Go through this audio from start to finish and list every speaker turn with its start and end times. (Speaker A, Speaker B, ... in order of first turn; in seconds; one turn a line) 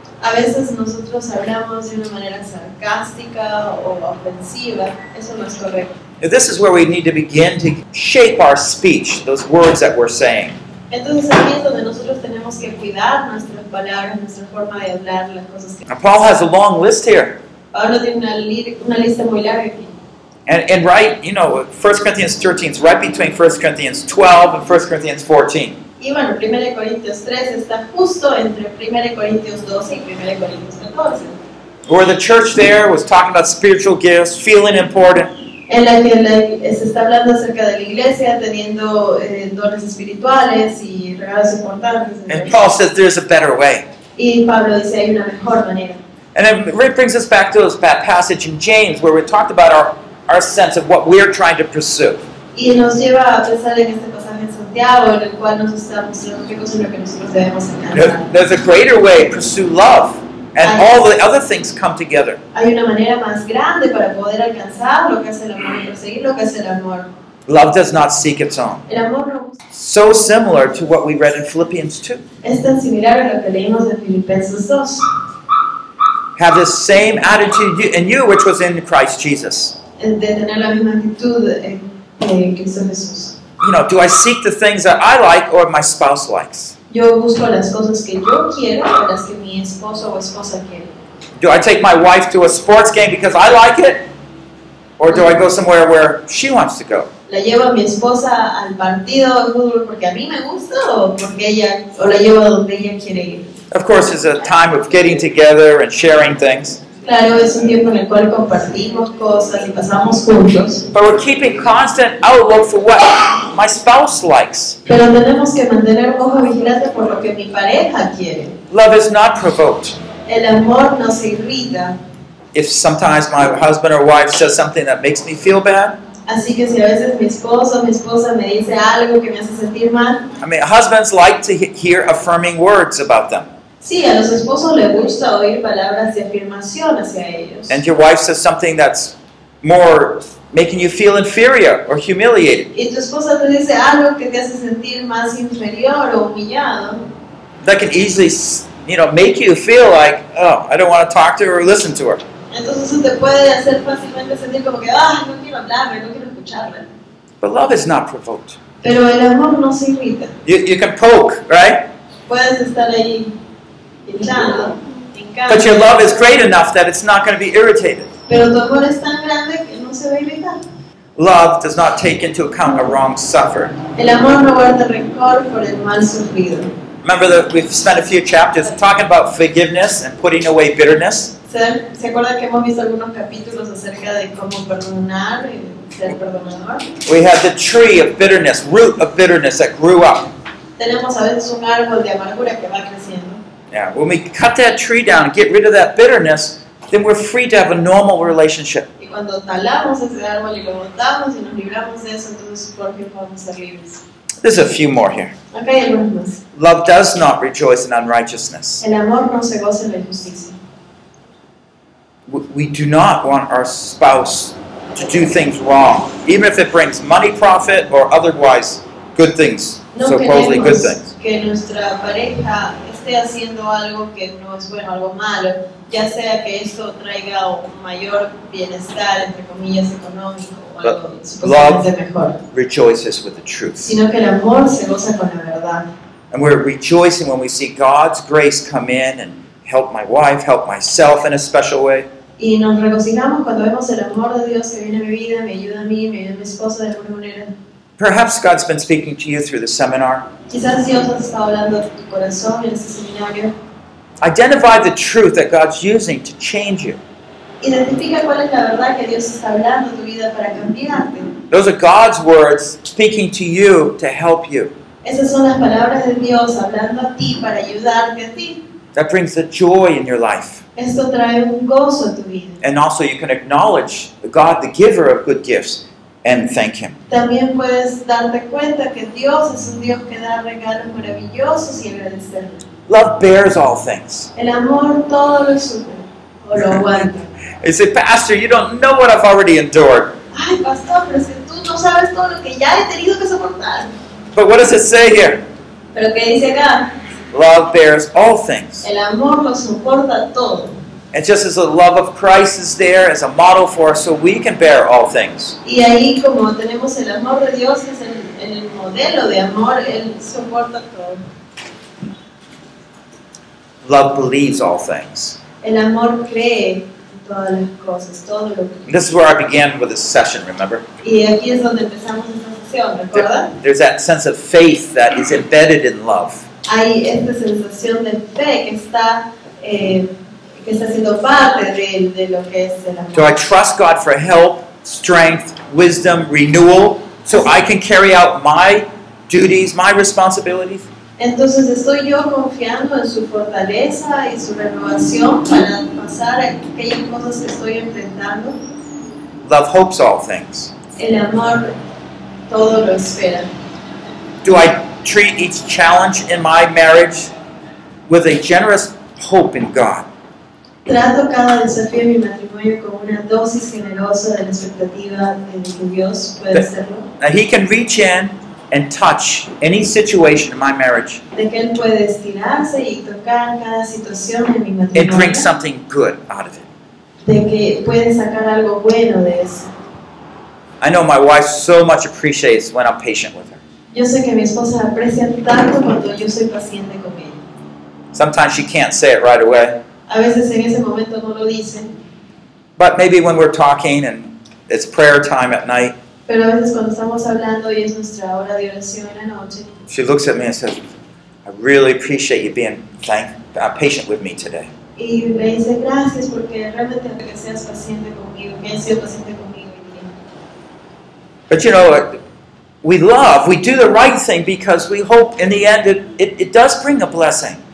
Speaker A: 0.2-5.9
Speaker B: 6.2-10.6
Speaker A: 10.9-15.8
Speaker B: 15.9-17.4
Speaker A: 17.7-19.9
Speaker B: 20.5-25.8
Speaker A: 26.0-31.4
Speaker B: 31.9-35.3
Speaker A: 35.7-42.6
Speaker B: 42.3-43.9
Speaker A: 44.2-46.0
Speaker B: 46.3-52.2
Speaker A: 52.5-58.3
Speaker B: 57.9-62.4
Speaker A: 60.6-60.9
Speaker A: 62.5-67.1
Speaker B: 67.5-68.8
Speaker A: 68.9-69.6
Speaker B: 69.7-72.2
Speaker A: 72.4-75.1
Speaker B: 76.3-79.7
Speaker A: 80.0-83.4
Speaker B: 83.6-86.7
Speaker A: 86.9-90.9
Speaker B: 91.4-94.0
Speaker B: 95.0-97.1
Speaker A: 97.3-103.5
Speaker B: 103.7-106.8
Speaker A: 107.0-110.8
Speaker B: 110.9-114.8
Speaker A: 114.8-118.5
Speaker B: 118.7-120.0
Speaker A: 120.2-122.0
Speaker B: 122.5-126.0
Speaker A: 126.3-130.3
Speaker B: 130.4-133.5
Speaker A: 133.8-137.8
Speaker B: 137.7-142.7
Speaker A: 142.7-147.0
Speaker B: 147.6-152.2
Speaker A: 152.5-156.8
Speaker B: 157.4-158.6
Speaker A: 158.8-160.3
Speaker B: 160.4-161.9
Speaker A: 162.3-163.3
Speaker A: 164.1-166.3
Speaker B: 165.5-168.1
Speaker A: 168.3-170.6
Speaker B: 171.2-173.8
Speaker A: 173.9-176.7
Speaker B: 177.0-181.3
Speaker A: 181.5-186.8
Speaker B: 187.1-190.3
Speaker A: 190.8-193.4
Speaker B: 193.7-198.9
Speaker A: 199.0-204.0
Speaker B: 204.4-205.3
Speaker A: 205.5-206.4
Speaker B: 206.5-208.8
Speaker A: 208.8-210.6
Speaker B: 212.3-221.1
Speaker A: 219.9-232.4
Speaker B: 230.8-231.8
Speaker B: 232.5-233.9
Speaker A: 233.8-235.9
Speaker B: 236.3-242.1
Speaker A: 242.4-247.5
Speaker B: 248.0-250.3
Speaker A: 250.5-253.5
Speaker B: 254.2-257.0
Speaker A: 257.6-261.3
Speaker B: 261.5-264.7
Speaker A: 265.0-268.6
Speaker B: 268.9-270.6
Speaker A: 270.8-272.6
Speaker B: 272.6-276.9
Speaker A: 277.1-282.6
Speaker B: 282.9-284.3
Speaker A: 284.3-287.3
Speaker B: 286.6-287.0
Speaker B: 287.6-290.1
Speaker A: 290.3-293.9
Speaker B: 294.3-295.4
Speaker A: 295.9-296.9
Speaker B: 297.3-298.9
Speaker A: 298.8-300.7
Speaker B: 301.1-305.6
Speaker A: 305.6-311.2
Speaker B: 313.8-315.4
Speaker A: 315.6-318.9
Speaker B: 318.9-320.8
Speaker A: 321.0-323.5
Speaker B: 323.1-326.4
Speaker A: 326.7-333.4
Speaker B: 333.1-340.9
Speaker A: 341.2-348.6
Speaker B: 349.4-350.7
Speaker A: 351.0-351.7
Speaker A: 352.5-353.5
Speaker B: 354.4-357.3
Speaker B: 358.1-360.1
Speaker A: 360.9-367.1
Speaker B: 367.2-371.2
Speaker A: 371.3-375.5
Speaker B: 374.9-376.6
Speaker A: 377.2-379.7
Speaker B: 380.8-383.6
Speaker A: 383.9-387.4
Speaker B: 388.1-389.8
Speaker A: 390.1-391.9
Speaker B: 392.8-395.9
Speaker A: 396.3-399.8
Speaker B: 399.9-400.8
Speaker B: 401.4-404.7
Speaker A: 405.0-410.1
Speaker B: 411.5-412.2
Speaker B: 412.8-417.6